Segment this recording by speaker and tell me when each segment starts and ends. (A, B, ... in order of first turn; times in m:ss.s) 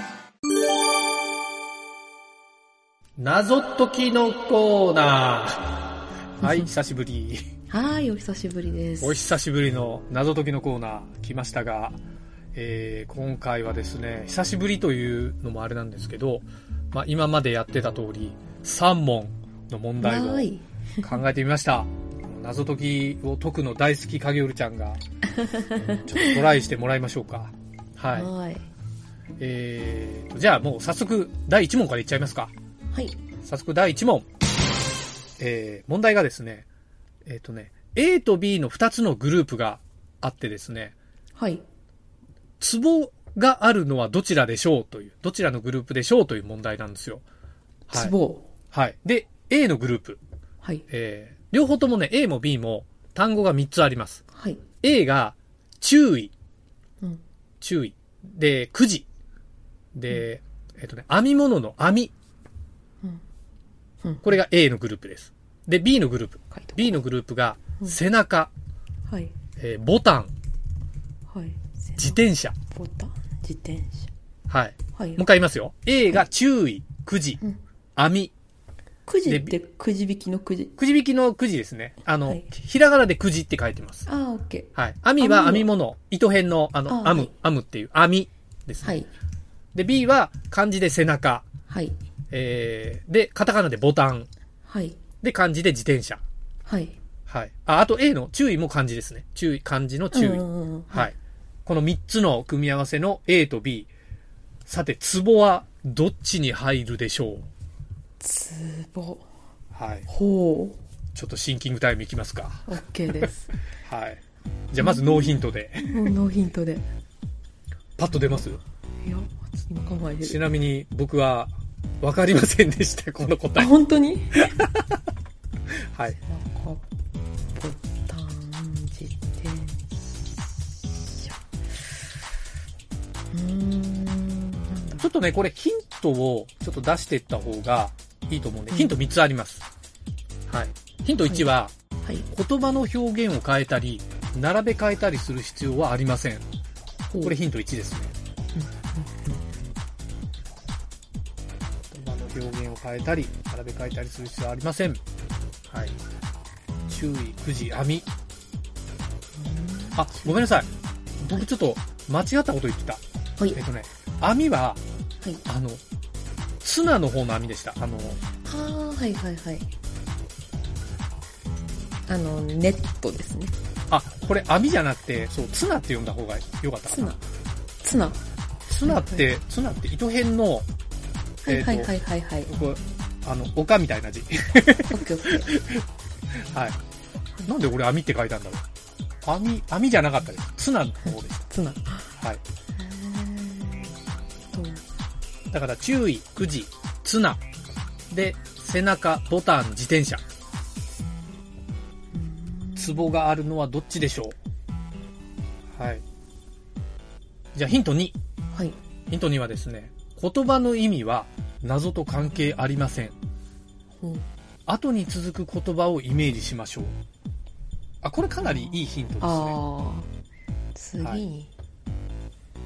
0:03.2-0:07.4 A
0:06.4-0:06.7 B
0:07.7-0:09.2 B
0:09.0-0:12.0 A
0:12.6-0:20.5 A
0:20.0-0:21.0 B
0:21.0-0:25.0 A
0:25.5-0:26.0 B
0:25.8-0:28.3 A
0:28.1-0:28.7 B
0:29.4-0:32.5 A
0:32.9-0:33.2 B
0:33.4-0:34.2 A
0:35.4-0:36.7 A
0:37.3-0:41.0 A
0:41.3-0:41.6 B
0:42.6-0:47.2 A
0:47.9-0:48.1 A
0:47.9-0:48.4 B
0:48.7-0:50.2 A
0:50.9-0:54.2 A
0:54.3-0:54.6 B
0:54.8-0:56.3 A
0:57.6-0:59.1 A
0:59.9-1:02.1 A
1:04.0-1:04.3 B
1:04.2-1:08.5 A
1:06.5-1:07.0 B
1:09.1-1:09.3 B
1:09.6-1:10.3 A
1:11.3-1:14.1 B
1:12.0-1:12.6 A
1:14.5-1:17.4 A
1:15.0-1:15.2 B
1:18.0-1:18.3 A
1:19.1-1:20.7 B
1:19.2-1:19.6 A
1:20.8-1:24.1 A
1:24.1-1:25.7 B
1:24.8-1:29.0 A
1:26.9-1:27.3 B
1:28.8-1:29.1 B
1:29.8-1:31.4 A
1:31.7-1:32.0 B
1:32.3-1:34.3 A
1:34.7-1:35.0 B
1:35.2-1:36.2 A
1:36.7-1:37.0 B
1:37.3-1:41.1 A
1:40.1-1:41.1 B
1:41.7-1:43.9 A
1:44.7-1:47.5 A
1:48.2-1:49.2 B
1:49.7-1:50.1 A
1:50.1-1:50.8 B
1:51.2-1:52.7 A
1:52.7-1:53.5 B
1:53.8-1:54.2 A
1:54.7-1:56.2 A
1:54.8-1:55.3 B
1:55.8-1:56.8 B
1:58.0-1:58.6 A
1:59.0-2:00.4 B
2:00.2-2:03.7 A
2:03.6-2:04.4 B
2:04.3-2:04.7 A
2:06.2-2:06.8 B
2:07.5-2:11.3 B
2:13.3-2:15.1 B
2:15.0-2:19.6 A
2:18.7-2:19.0 B
2:20.5-2:21.7 A
2:22.3-2:26.4 A
2:27.1-2:27.4 B
2:27.2-2:28.1 A
2:28.6-2:29.4 B
2:31.9-2:35.0 A
2:35.7-2:36.0 A
2:36.9-2:38.1 A
2:39.4-2:40.4 B
2:39.9-2:40.7 A
2:41.2-2:43.0 A
2:43.5-2:44.8 A
2:45.5-2:45.8 A
2:46.6-2:48.2 A
2:48.4-2:49.7 B
2:52.1-2:53.5 B
2:53.9-2:57.2 A
2:56.9-2:57.2 B
2:57.8-2:58.2 B
2:58.7-3:00.7 A
2:58.8-2:59.2 B
3:01.4-3:01.9 A
3:01.4-3:02.5 B
3:02.5-3:05.8 A
3:04.9-3:05.5 B
3:06.5-3:06.8 A
3:07.5-3:08.6 A
3:09.2-3:11.5 A
3:11.5-3:12.1 B
3:12.8-3:13.9 B
3:14.5-3:14.8 B
3:15.5-3:17.4 A
3:18.1-3:20.2 A
3:22.1-3:23.2 B
3:22.8-3:24.4 A
3:25.8-3:26.0 A
3:27.5-3:28.2 A
3:29.1-3:33.2 A
3:34.0-3:34.2 B
3:34.7-3:37.0 A
3:38.0-3:39.6 A
3:38.4-3:40.1 B
3:40.8-3:41.5 B